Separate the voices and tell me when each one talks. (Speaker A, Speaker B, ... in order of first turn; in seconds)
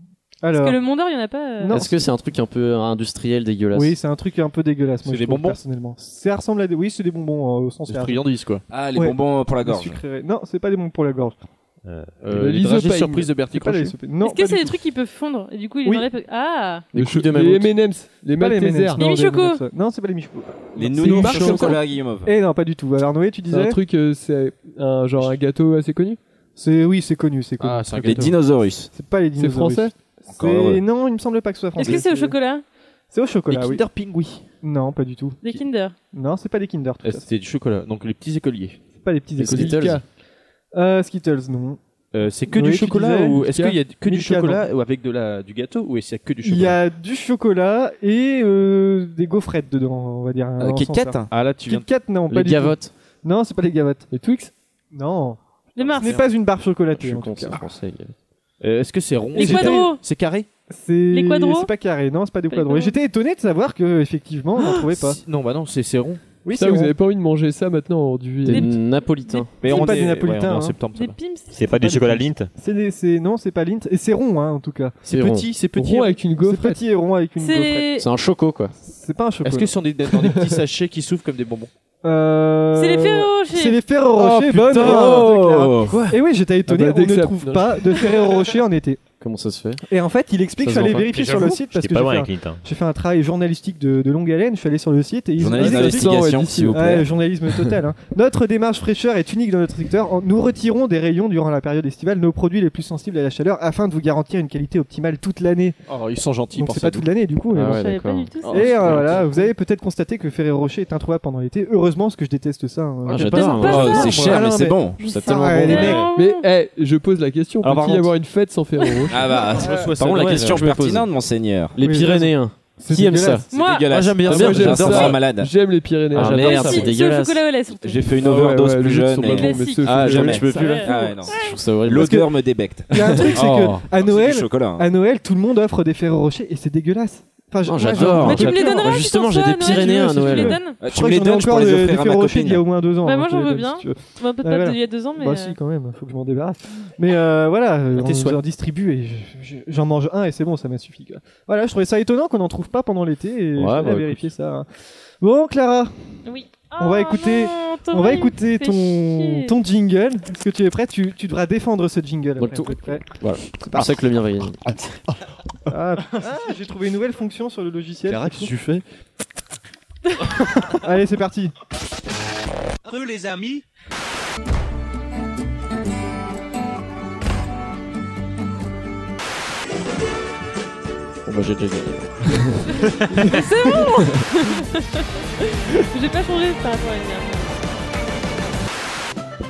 Speaker A: 0.4-0.8, 1.6-2.0, 3.7-8.2, 8.9-11.4, 13.5-14.8, 18.3-21.7, 22.2-23.8, 26.6-28.4, 28.9-32.4, 33.1-33.8, 34.6-35.5, 36.1-37.3, 39.0-40.0, 40.7-41.8, 42.5-44.7, 46.4-54.1, 54.9-57.6, 59.4-59.9, 60.7-65.2, 66.4-67.0, 69.6-70.8, 71.6-75.0, 76.4-77.9, 78.8-79.7, 82.0-89.0, 89.8-105.8, 106.5-107.9, 108.5-116.1, 117.6-118.1, 121.8-123.5, 132.9-139.0, 139.6-154.7, 155.2-156.2, 156.8-164.0, 165.7-168.5, 170.7-171.5
Speaker B: 0.6-1.8, 14.2-16.9, 19.0-19.6, 31.8-32.6, 35.4-36.0, 55.8-56.2, 59.4-60.0, 61.1-61.7, 62.5-63.0, 68.5-69.8, 70.9-71.5, 77.4-78.1, 82.8-83.8, 107.7-109.5, 113.3-114.4, 115.0-116.5, 118.8-119.2, 123.5-123.9, 126.3-128.2, 129.3-131.6, 138.2-140.8, 143.0-145.6, 156.2-159.5, 183.1-187.5
Speaker C: 1.7-4.0, 16.9-17.8, 39.4-40.0, 52.3-52.9, 56.9-58.1, 68.4-69.5, 75.1-75.5, 78.0-78.7, 89.2-89.8, 90.6-91.1, 107.5-108.3, 113.1-114.4, 115.0-115.9, 120.0-121.1, 121.7-123.5, 126.1-127.4, 131.3-132.3, 137.6-140.6, 153.6-154.3, 162.4-164.8, 181.3-182.7
Speaker D: 5.0-5.6, 7.9-8.6, 12.2-13.9, 27.6-28.4, 33.5-34.5, 37.0-38.8, 42.1-46.8, 51.3-51.9, 55.8-56.2, 58.6-60.5, 64.6-66.2, 69.6-71.2, 75.0-76.3, 79.4-81.7, 84.2-85.3, 85.8-86.2, 91.0-91.6, 105.9-107.1, 108.5-109.4, 113.1-114.5, 115.7-116.1, 119.6-120.7, 123.9-125.2, 126.2-126.9, 129.9-130.9, 133.3-133.9, 138.3-138.7, 148.0-148.4, 168.1-168.8
Speaker E: 8.7-10.0, 20.8-22.4, 28.0-28.9, 30.3-30.8, 50.6-51.3, 84.6-86.0, 95.4-97.1, 113.5-115.0, 119.1-121.8, 123.5-125.5, 127.8-134.9, 140.8-142.6
Speaker F: 11.9-12.2, 71.5-72.5, 91.7-92.6
Speaker G: 12.3-13.4, 16.9-19.0, 20.9-21.8, 23.5-26.2, 29.4-29.9, 39.5-40.0, 54.1-54.5, 66.5-68.8, 75.7-76.8, 80.2-80.6, 86.7-88.0, 95.5-96.9, 116.1-119.3, 124.3-126.7, 128.2-130.4